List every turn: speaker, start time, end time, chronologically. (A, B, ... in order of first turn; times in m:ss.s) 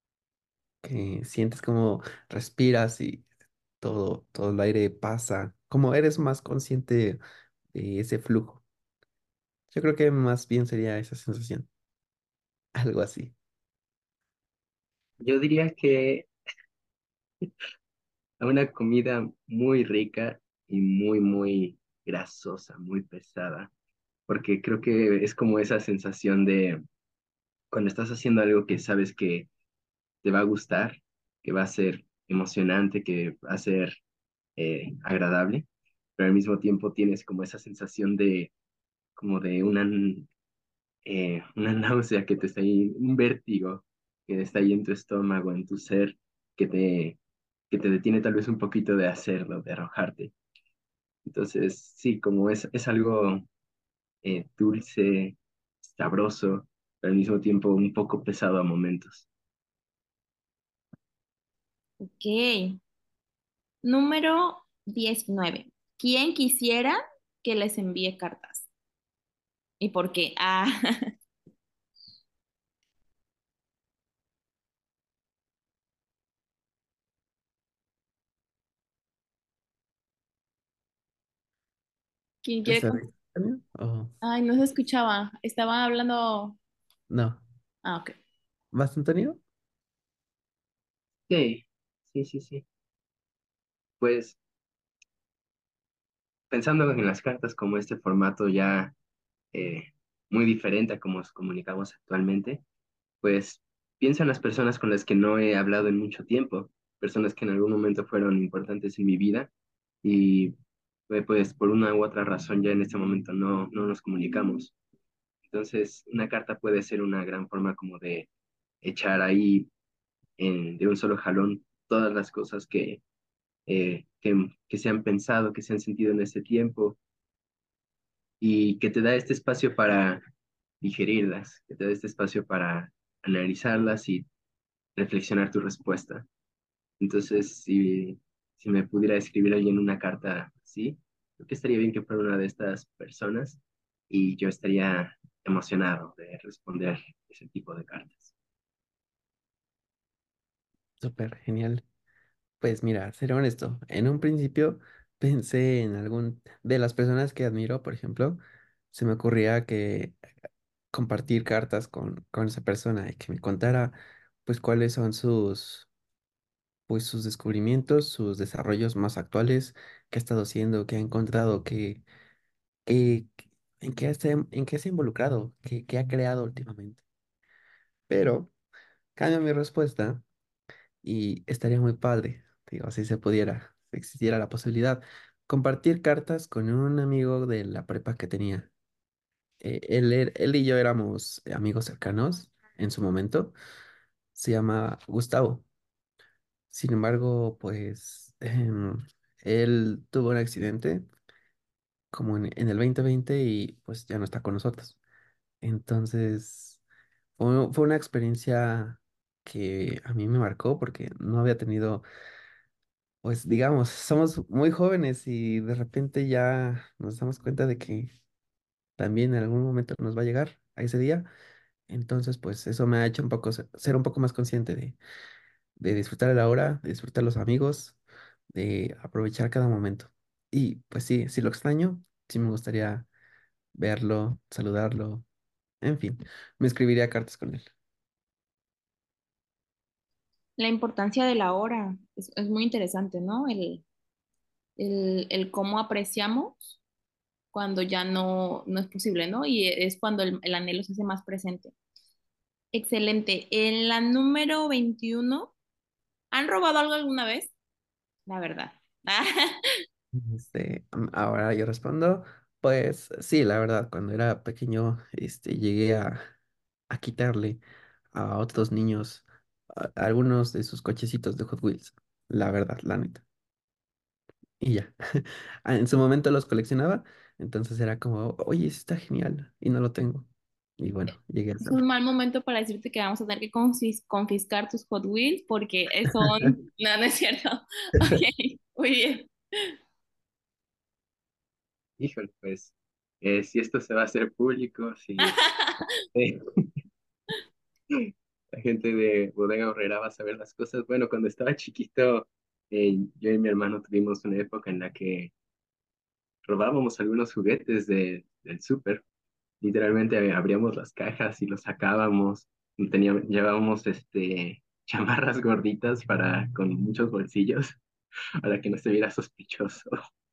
0:00.8-0:03.2 A
0:03.8-0:07.2 A
0:07.7-0:08.6 A
0:09.7-0:11.7 A
0:12.8-0:13.3 A
0:15.2-0:16.3 B
0:18.4-0:23.7 B
0:24.3-0:26.8 B
0:27.7-0:29.5 B
0:30.2-0:34.0 B
0:34.6-0:38.5 B
0:39.2-0:40.3 B
0:41.0-0:47.2 B
0:47.7-0:50.3 B
0:51.2-0:53.4 B
0:54.2-0:59.3 B
1:02.0-1:02.8 C
1:03.8-1:08.7 C
1:09.8-1:10.8 C
1:22.4-1:23.0 C
1:22.6-1:24.1 A
1:24.2-1:26.6 C
1:27.1-1:27.4 A
1:27.8-1:28.1 C
1:28.7-1:29.4 A
1:31.3-1:32.6 B
1:34.0-1:34.4 B
1:36.5-1:38.9 B
1:39.5-1:42.6 B
1:43.2-1:49.5 B
1:50.0-1:50.6 B
1:51.1-1:54.7 B
1:55.5-1:58.3 B
1:58.8-1:59.7 B
2:00.4-2:03.0 B
2:03.7-2:07.0 B
2:08.4-2:10.2 B
2:10.8-2:14.3 B
2:15.0-2:16.3 B
2:17.0-2:28.3 B
2:31.0-2:31.8 A
2:32.6-2:38.4 A
2:38.9-2:40.2 A
2:40.9-2:45.9 A
2:46.9-2:52.0 A
2:52.8-2:57.0 A
2:58.1-2:58.5 A
2:59.2-3:00.2 A
3:01.0-3:08.7 A
3:09.6-3:13.5 A
3:14.3-3:15.6 A
3:16.7-3:21.0 A
3:22.1-3:25.0 A
3:25.6-3:26.8 A
3:27.4-3:32.0 A
3:33.2-3:38.1 A
3:39.0-3:41.3 A
3:41.9-3:45.0 A
3:45.8-3:48.0 A
3:48.5-3:53.1 A
3:53.7-3:55.2 A
3:55.8-3:57.7 A
4:00.6-4:03.8 C
4:04.8-4:06.8 C
4:07.5-4:11.7 C
4:12.7-4:15.5 C
4:16.3-4:17.5 C
4:18.3-4:19.6 C
4:20.1-4:26.2 A
4:26.9-4:27.6 A
4:28.1-4:33.2 A
4:34.6-4:40.3 A
4:40.8-4:41.8 A
4:41.6-4:49.3 C
4:52.0-4:55.4 B
4:55.2-4:55.9 C
4:56.1-4:56.6 B
4:58.5-5:05.3 B
5:06.4-5:09.0 B
5:09.6-5:17.8 B
5:18.4-5:19.9 B